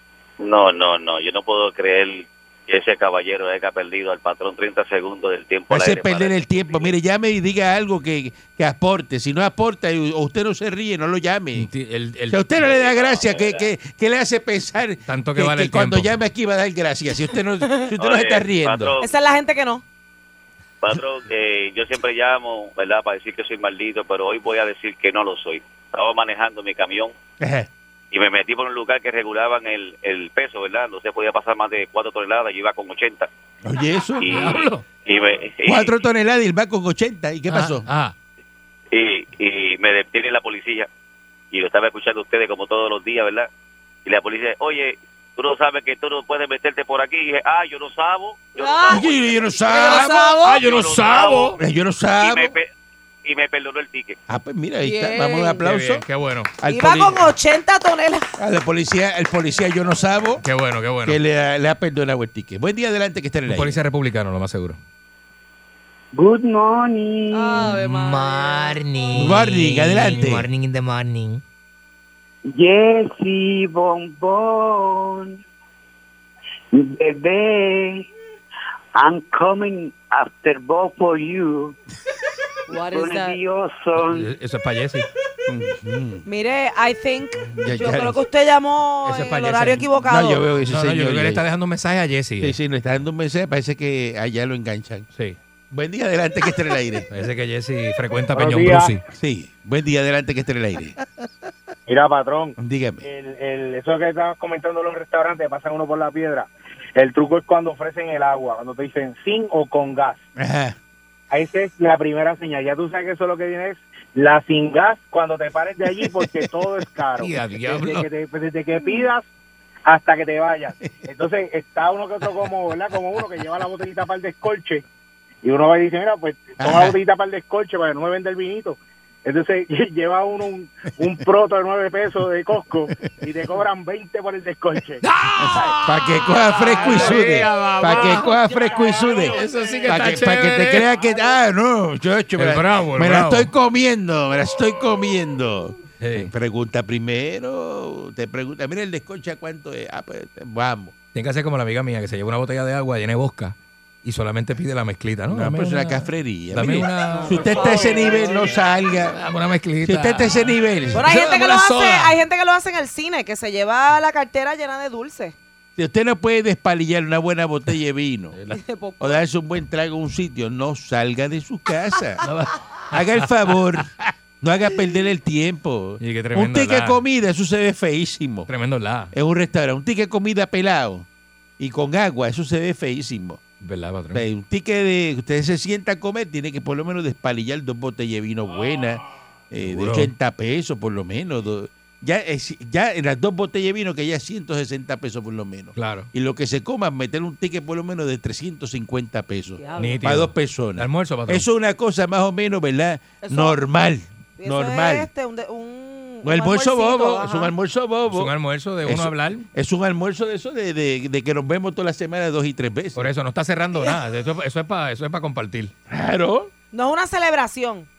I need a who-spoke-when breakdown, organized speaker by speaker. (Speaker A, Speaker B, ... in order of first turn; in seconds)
Speaker A: 0.4-6.9, 12.6-13.7, 18.0-19.1, 20.8-27.1, 28.1-33.3, 34.2-35.9, 38.9-40.9, 41.5-43.5, 44.0-49.8, 50.5-51.6, 52.2-52.7, 53.2-54.2
Speaker B: 5.7-11.7, 12.3-18.9, 27.4-27.7, 33.6-34.4, 35.6-37.9, 48.9-50.4, 51.6-52.5, 54.3-56.0, 56.6-57.3, 58.4-60.4, 61.0-63.8, 69.1-70.5, 85.5-86.2, 87.3-88.2, 89.5-91.4, 92.4-95.1, 95.7-97.0, 99.1-101.0, 102.6-103.0, 110.4-110.8, 116.0-116.5, 126.6-127.0, 135.4-150.9, 155.3-159.2, 159.8-161.1, 165.8-168.3, 169.0-172.2, 172.9-178.5, 179.1-181.1, 181.6-183.4, 184.1-205.1, 206.2-208.3, 208.8-213.1, 215.9-216.5
Speaker C: 11.6-12.5, 15.1-16.1, 34.3-34.9, 37.5-38.1, 49.7-51.6, 55.6-56.5, 60.4-61.2, 63.5-64.8, 84.0-85.1, 89.0-89.8, 90.7-92.5, 97.1-99.0, 117.2-118.1, 135.0-138.4, 139.1-140.9, 142.3-143.5, 146.0-146.3, 151.1-162.2, 172.2-173.4, 176.0-177.0, 178.5-179.1, 183.6-184.2, 189.6-190.1, 195.8-196.1, 199.8-201.4, 208.1-209.4, 212.9-215.7
Speaker D: 17.6-17.9, 19.0-19.8, 48.5-49.1, 49.6-50.6, 54.8-55.6, 56.6-58.3, 67.3-70.1, 82.7-83.4, 86.2-90.4, 157.1-158.5, 160.9-165.3, 168.5-169.2, 199.6-200.0, 203.2-203.6, 204.4-207.5, 216.7-217.9
Speaker E: 66.1-67.8, 72.5-75.4, 76.7-78.1, 79.0-81.8, 82.7-84.3
Speaker F: 67.6-71.4
Speaker G: 98.3-99.0, 101.9-110.2, 111.3-119.3, 119.9-124.8, 125.4-135.0, 136.7-139.8